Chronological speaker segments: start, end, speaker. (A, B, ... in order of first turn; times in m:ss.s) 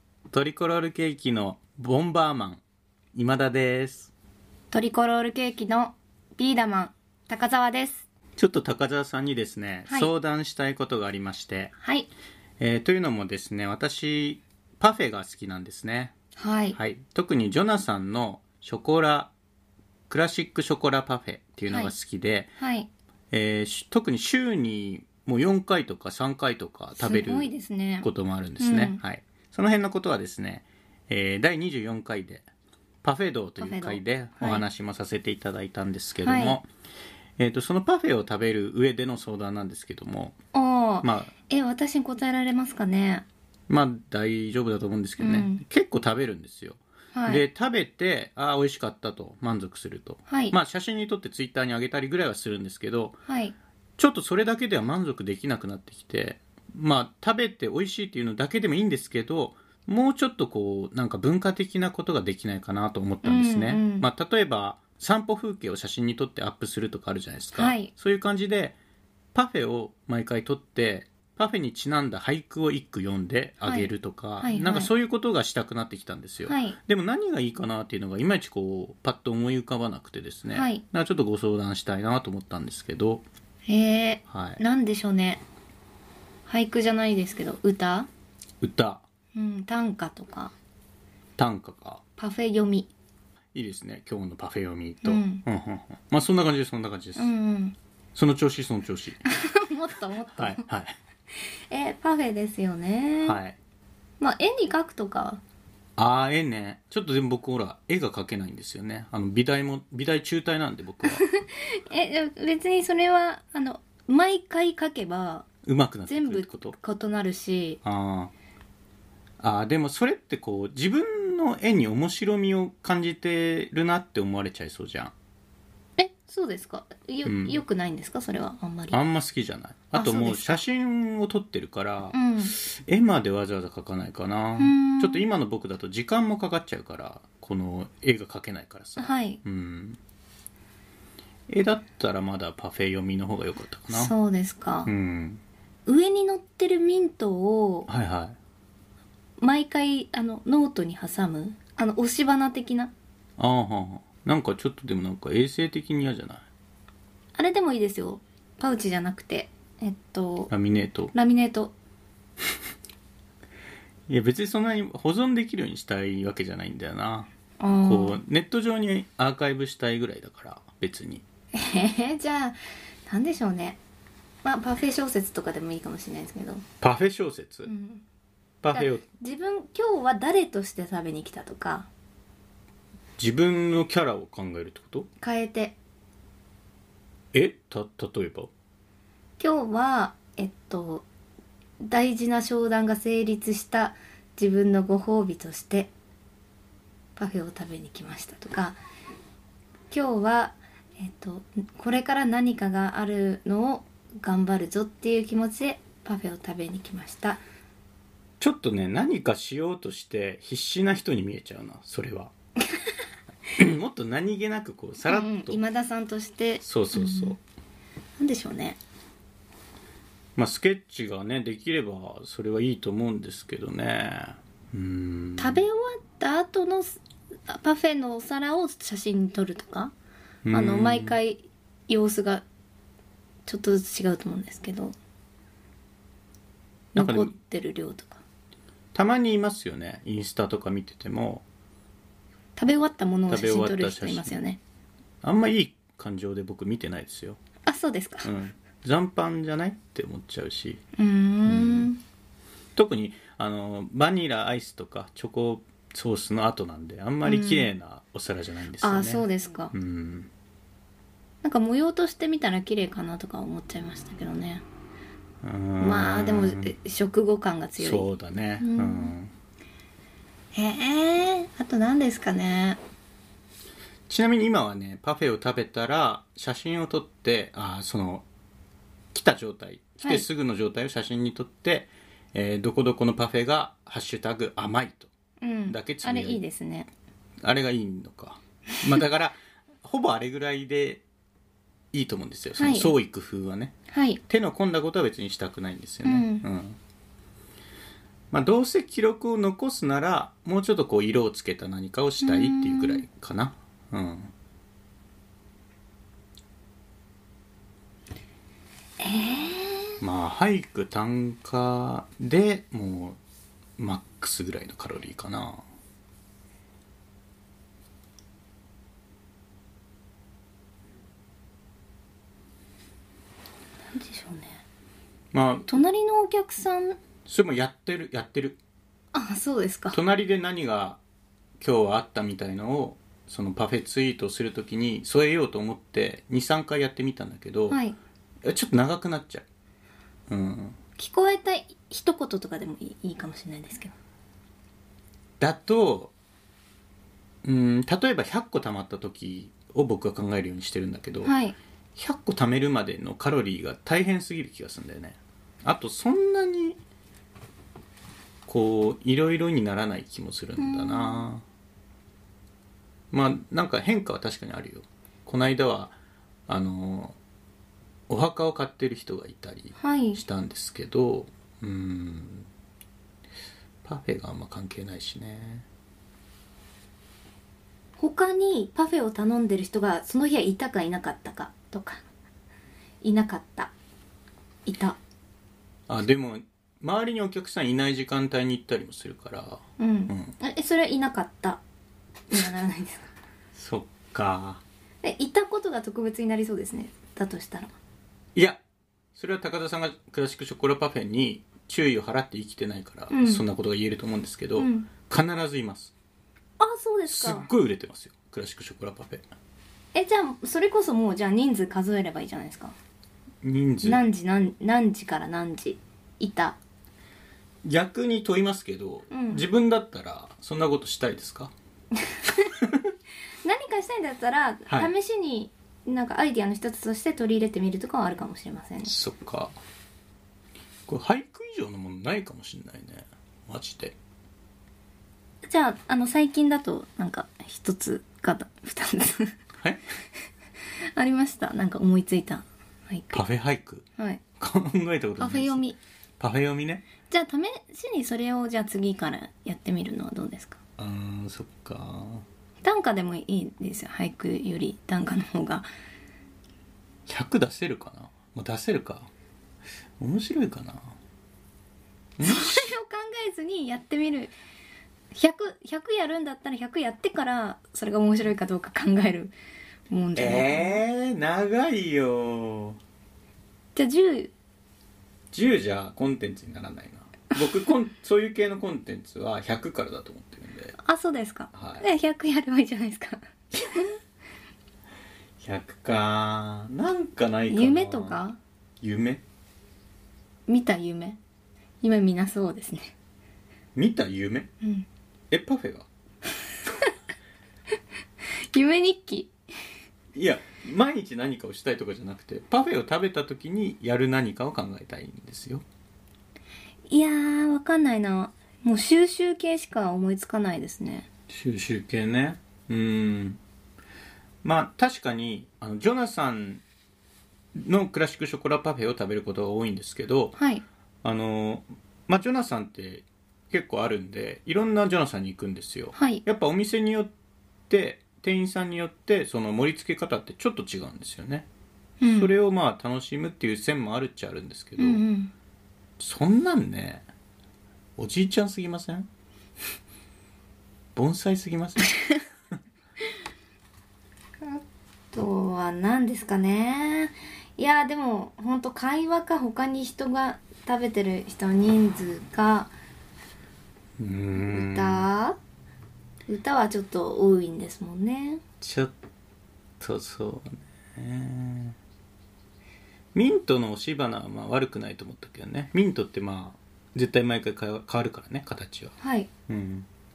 0:00.3-0:02.6 A
0:03.1-0:04.1 A
0:04.7-0:08.0 B
0:08.4-0:11.7 A
0:11.8-0:12.1 B
0:12.6-0:16.1 A
0:16.4-0:16.8 B
0:16.7-0:19.3 A
0:20.1-0:22.5 A
0:21.7-0:21.9 B
0:22.6-0:22.9 B
0:23.3-0:27.5 A
0:27.0-0:29.0 B
0:28.0-0:32.5 A
0:33.0-0:36.7 A
0:33.6-0:34.6 B
0:36.2-0:36.6 B
0:37.4-0:40.4 A
0:40.5-0:43.2 B
0:41.0-0:41.3 A
0:43.7-0:53.2 A
0:45.2-0:45.6 B
0:47.1-0:47.4 B
0:50.3-0:50.6 B
0:53.3-0:53.5 B
0:54.0-1:08.8 A
1:03.2-1:04.1 B
1:07.5-1:07.9 B
1:09.3-1:23.2 A
1:13.6-1:14.9 B
1:16.4-1:16.8 B
1:20.5-1:20.8 B
1:23.7-1:25.4 B
1:24.3-1:24.6 A
1:26.5-1:28.1 B
1:28.6-1:29.0 A
1:29.3-1:30.5 B
1:31.4-1:32.0 A
1:32.2-1:32.9 B
1:33.5-1:37.3 A
1:35.0-1:35.4 B
1:37.2-1:37.8 B
1:38.1-1:39.2 A
1:39.3-1:40.6 B
1:40.3-1:41.0 A
1:41.4-1:43.4 B
1:43.2-1:43.6 A
1:44.2-1:45.4 B
1:46.0-1:51.2 A
1:51.0-1:55.5 B
1:55.6-1:56.8 A
1:56.1-1:57.8 B
1:57.8-1:58.3 A
1:59.4-2:05.1 A
2:06.0-2:09.0 B
2:07.2-2:07.6 A
2:08.9-2:20.0 A
2:09.9-2:10.6 B
2:12.1-2:12.6 B
2:14.6-2:15.2 B
2:19.0-2:19.4 B
2:21.5-2:24.1 A
2:23.9-2:24.9 B
2:24.8-2:25.4 A
2:25.8-2:27.9 B
2:27.9-2:28.4 A
2:29.4-2:32.9 B
2:33.4-2:36.4 A
2:37.4-2:40.5 B
2:40.5-2:41.1 A
2:41.1-2:41.7 B
2:44.1-2:47.3 A
2:47.6-2:48.2 B
2:47.8-2:51.2 A
2:51.5-2:53.8 B
2:54.4-2:56.6 B
2:56.8-2:57.7 A
2:57.6-2:58.0 B
2:58.6-2:59.0 A
2:58.7-3:01.9 B
3:03.2-3:05.1 A
3:05.2-3:05.8 B
3:07.3-3:08.5 A
3:09.4-3:11.0 B
3:11.8-3:15.9 B
3:17.2-3:18.8 B
3:19.9-3:27.4 B
3:28.4-3:32.3 A
3:33.6-3:35.6 A
3:35.0-3:37.4 B
3:36.6-3:37.4 A
3:38.2-3:38.8 B
3:40.4-3:45.6 A
3:45.4-3:49.9 B
3:50.4-3:51.2 A
3:50.5-3:52.4 B
3:53.5-3:54.9 B
3:56.9-3:58.2 B
3:57.0-3:57.3 A
3:58.9-4:01.4 A
4:02.6-4:04.6 B
4:03.3-4:04.4 A
4:05.2-4:07.4 A
4:07.6-4:08.3 B
4:08.2-4:10.8 A
4:11.0-4:12.0 B
4:11.4-4:11.9 A
4:12.8-4:20.3 A
4:17.2-4:17.7 B
4:18.8-4:19.7 B
4:21.4-4:24.6 B
4:25.4-4:26.7 A
4:25.8-4:28.1 B
4:27.8-4:29.3 A
4:28.6-4:29.1 B
4:30.5-4:32.8 B
4:34.1-4:38.2 A
4:39.1-4:45.1 A
4:45.4-4:46.9 B
4:45.7-4:46.4 A
4:47.4-4:51.0 A
4:51.9-4:53.7 A
4:52.6-4:52.9 B
4:53.9-4:54.2 B
4:54.3-4:56.8 A
4:56.0-4:56.4 B
4:58.3-5:04.3 A
5:02.2-5:03.0 B
5:09.0-5:10.0 B
5:10.0-5:13.2 A
5:13.8-5:15.6 A
5:23.9-5:24.6 B
5:25.3-5:25.7 A
5:25.7-5:27.0 B
5:27.2-5:28.6 A
5:29.1-5:30.0 B
5:29.9-5:31.0 A
5:31.6-5:37.8 A
5:37.7-5:38.0 B
5:38.4-5:39.4 A
5:40.3-5:40.8 A
5:41.0-5:43.9 B
5:45.4-5:46.1 A
5:47.4-5:51.3 A
5:51.2-5:51.6 B
5:52.0-5:56.8 A
5:58.4-6:01.4 A
6:00.6-6:01.3 B
6:03.1-6:06.0 A
6:06.5-6:07.2 A
6:08.1-6:12.5 A
6:09.8-6:10.2 B
6:13.8-6:15.6 A
6:18.0-6:22.0 B
6:23.0-6:23.7 B
6:24.6-6:25.0 B
6:25.9-6:30.3 A
6:29.8-6:31.6 B
6:32.3-6:33.1 B
6:33.5-6:34.6 A
6:35.0-6:37.7 B
6:38.3-6:38.6 A
6:39.1-6:45.9 A
6:43.1-6:43.4 B
6:44.6-6:44.9 B
6:46.6-6:47.5 B
6:47.1-6:49.2 A
6:49.9-6:52.8 B
6:53.4-6:54.0 A
6:53.8-6:56.6 B
6:57.6-7:01.5 A
6:59.1-6:59.4 B
7:02.1-7:02.5 B
7:02.6-7:02.8 A
7:03.4-7:08.9 B
7:08.8-7:09.6 A
7:10.9-7:14.0 A
7:15.5-7:19.4 B
7:20.9-7:23.2 B
7:23.1-7:23.8 A
7:24.4-7:25.6 A
7:25.2-7:25.8 B
7:26.2-7:26.8 A
7:27.1-7:30.6 B
7:30.8-7:32.2 A
7:32.6-7:35.7 B
7:37.1-7:39.1 A
7:40.0-7:41.0 A
7:42.2-7:42.7 A
7:42.2-7:44.3 B
7:45.1-7:49.3 B
7:49.9-7:50.8 B
7:50.2-7:52.8 A
7:53.7-7:54.3 B
7:55.3-8:00.7 A
8:00.8-8:04.0 B
8:01.5-8:01.8 A
8:05.4-8:08.2 A
8:07.5-8:08.4 B
8:08.8-8:09.2 A
8:10.5-8:11.2 B
8:11.8-8:12.9 B
8:13.7-8:14.5 A
8:15.3-8:15.9 A
8:18.5-8:19.3 B
8:20.1-8:25.6 A
8:26.9-8:31.1 B
8:31.3-8:33.4 A
8:34.4-8:36.6 A
8:37.5-8:40.4 A
8:40.4-8:40.6 B
8:41.0-8:47.1 A
8:46.0-8:46.2 B
8:47.7-8:51.5 A
8:52.0-8:52.3 B
8:52.1-8:55.0 A
8:54.8-8:55.3 B
8:56.0-8:57.0 A
8:58.0-8:59.1 A
9:00.9-9:02.0 A
9:04.4-9:12.7 B
9:14.0-9:15.1 A
9:14.3-9:15.4 B
9:16.3-9:18.4 B
9:18.6-9:18.9 A
9:19.8-9:21.8 A
9:23.1-9:28.9 A
9:29.0-9:29.3 B
9:29.5-9:29.9 A